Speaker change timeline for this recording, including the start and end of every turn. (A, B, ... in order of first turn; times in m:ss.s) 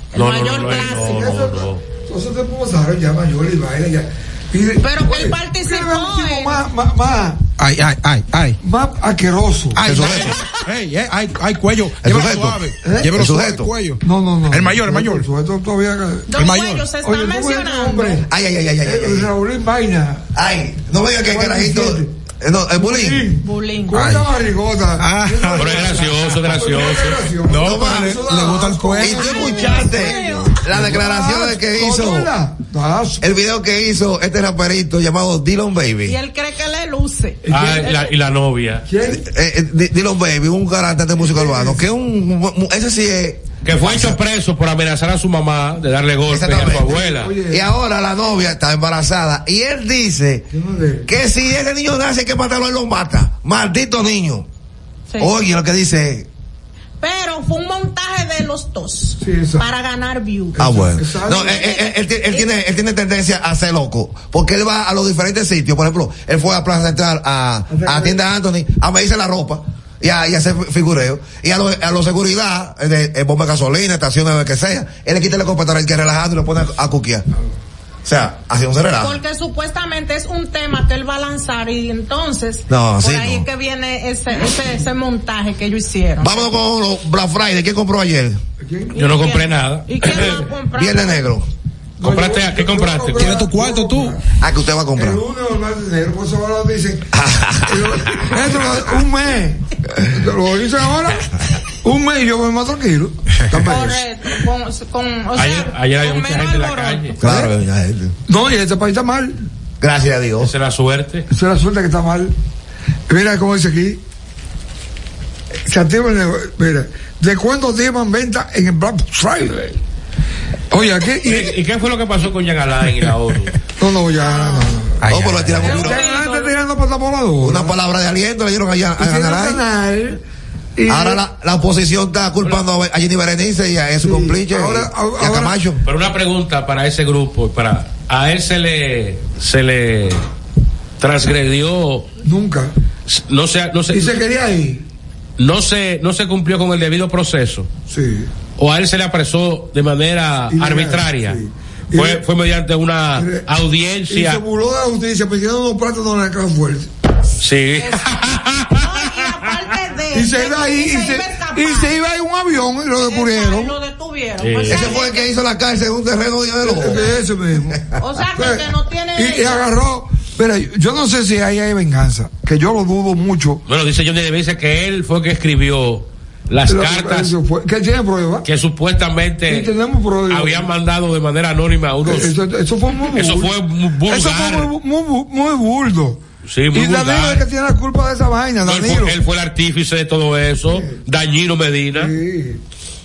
0:00.1-0:01.3 A
0:00.1-0:01.8 B
0:00.7-0:07.4 C
0:04.8-0:06.6 A
0:07.6-0:08.6 D
0:08.6-0:09.9 C
0:09.7-0:15.3 D
0:09.8-0:10.4 E
0:12.0-0:13.7 E
0:12.8-0:13.2 C
0:14.0-0:16.3 C
0:16.3-0:18.2 A
0:16.3-0:16.9 D
0:17.0-0:18.3 C
0:18.3-0:19.3 E
0:18.8-0:20.2 C
0:20.3-0:23.3 E
0:21.2-0:22.1 C
0:22.8-0:33.2 C
0:23.4-0:24.0 A
0:23.9-0:24.3 D
0:25.0-0:26.3 D
0:25.6-0:27.2 B
0:27.5-0:29.8 D
0:27.6-0:28.2 E
0:29.0-0:32.3 E
0:29.2-0:30.6 A
0:33.2-0:36.2 E
0:36.0-0:37.4 A
0:37.4-0:38.0 C
0:37.5-0:38.8 B
0:38.8-0:39.2 C
0:39.0-0:44.2 E
0:41.2-0:41.8 C
0:43.6-0:47.3 B
0:46.3-0:50.5 E
0:46.8-0:47.7 C
0:50.5-0:51.1 C
0:51.0-0:54.4 E
0:55.2-0:56.3 E
0:57.0-1:00.6 A
0:59.2-0:59.7 C
1:00.6-1:01.5 C
1:00.6-1:17.2 E
1:01.3-1:02.5 A
1:07.7-1:08.2 C
1:18.0-1:19.2 E
1:19.0-1:26.5 A
1:22.7-1:23.4 E
1:26.2-1:28.4 E
1:28.6-1:28.9 C
1:28.9-1:31.3 A
1:28.9-1:30.3 B
1:30.7-1:31.5 E
1:32.0-1:34.2 C
1:32.0-1:33.4 B
1:33.2-1:34.2 D
1:34.4-1:35.2 E
1:34.9-1:37.1 C
1:37.1-1:38.3 E
1:37.6-1:41.3 C
1:41.8-1:44.0 C
1:43.7-1:47.1 A
1:45.3-1:47.2 B
1:47.2-1:48.1 E
1:48.3-1:49.4 C
1:49.8-1:50.5 E
1:50.4-1:51.3 B
1:51.3-1:52.3 C
1:53.1-1:54.0 C
1:55.6-1:59.8 C
2:00.7-2:01.5 C
2:01.2-2:03.5 B
2:03.8-2:07.8 C
2:04.2-2:04.7 A
2:05.0-2:05.6 D
2:05.1-2:06.0 E
2:05.6-2:06.5 A
2:07.4-2:09.6 E
2:09.0-2:10.2 C
2:10.8-2:11.2 C
2:10.9-2:15.8 E
2:14.0-2:15.6 C
2:15.8-2:20.2 B
2:21.0-2:22.1 B
2:22.2-2:22.7 C
2:23.1-2:24.2 B
2:23.9-2:24.8 C
2:25.4-2:27.7 B
2:27.9-2:28.3 C
2:28.6-2:31.4 B
2:30.5-2:32.2 C
2:31.9-2:34.4 B
2:33.2-2:33.4 C
2:34.1-2:36.9 C
2:37.4-2:39.1 B
2:37.8-2:38.2 A
2:38.7-2:41.9 A
2:40.1-2:43.7 C
2:43.0-2:45.3 A
2:44.4-2:44.9 B
2:44.7-2:47.1 E
2:46.6-2:53.6 C
2:46.9-2:47.1 A
2:48.0-2:49.6 A
2:53.7-2:57.3 B
2:56.7-2:58.4 C
2:58.4-2:59.7 B
2:59.5-3:00.6 C
3:00.3-3:02.4 B
3:02.0-3:03.5 C
3:03.1-3:04.7 B
3:04.1-3:06.2 C
3:06.4-3:07.4 B
3:06.7-3:09.2 C
3:08.6-3:12.1 B
3:10.7-3:11.0 C
3:11.9-3:12.6 C